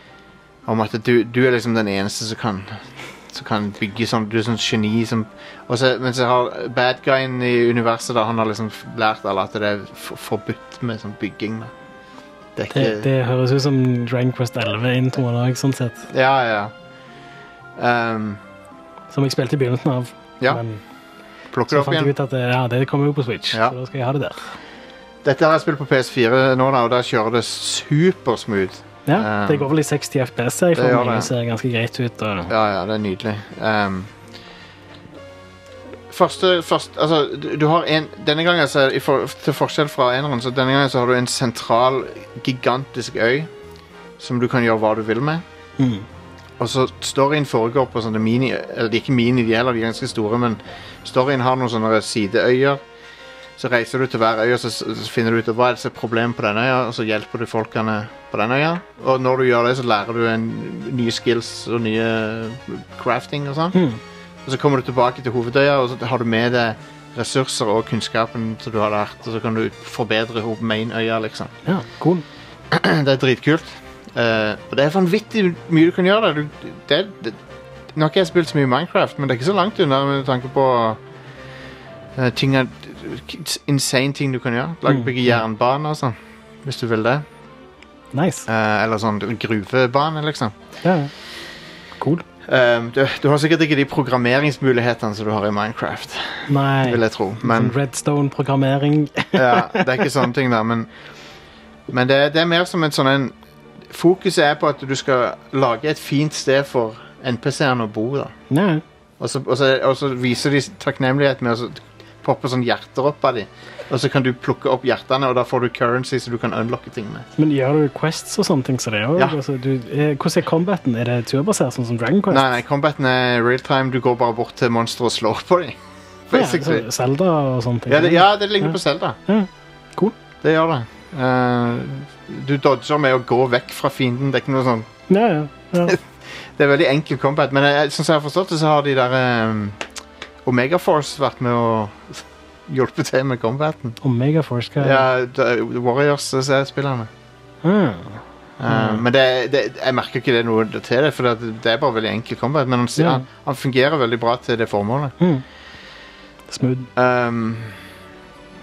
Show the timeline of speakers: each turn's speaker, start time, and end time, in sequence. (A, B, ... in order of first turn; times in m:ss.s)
0:00.6-0:11.7 A
0:12.5-0:13.1 A
0:12.7-0:16.0 B
0:16.1-0:16.7 A
0:17.8-0:18.4 A
0:19.1-0:20.8 B
0:21.5-0:22.1 A
0:21.7-0:24.5 B
0:25.2-0:29.7 A
0:29.0-0:32.5 B
0:30.7-0:31.3 A
0:32.5-0:34.1 A
0:36.1-0:43.5 A
0:44.2-0:45.4 A
0:45.8-0:46.0 B
0:46.6-0:52.8 A
0:53.6-1:03.8 A
1:03.7-1:04.0 B
1:04.4-1:11.5 A
1:11.7-1:12.2 B
1:12.7-1:17.4 A
1:17.9-1:21.0 A
1:22.2-1:27.2 A
1:28.1-1:28.4 B
1:28.5-1:30.5 A
1:30.8-1:31.1 B
1:32.0-1:32.2 B
1:32.4-1:37.7 A
1:36.5-1:40.0 B
1:39.3-1:40.9 A
1:41.9-1:43.3 A
1:43.9-1:48.3 A
1:48.5-1:48.8 B
1:49.2-1:57.3 A
1:57.4-2:02.5 B
2:02.3-2:05.8 A
2:06.3-2:06.9 A
2:06.3-2:08.7 B
2:07.9-2:09.2 A
2:09.3-2:10.1 B
2:10.4-2:14.9 A
2:15.1-2:16.0 B
2:15.8-2:19.8 A
2:20.4-2:24.0 A
2:24.0-2:25.0 B
2:24.8-2:27.1 A
2:27.6-2:29.0 B
2:28.6-2:35.1 A
2:33.0-2:33.2 B
2:36.5-2:36.9 B
2:37.0-2:37.8 A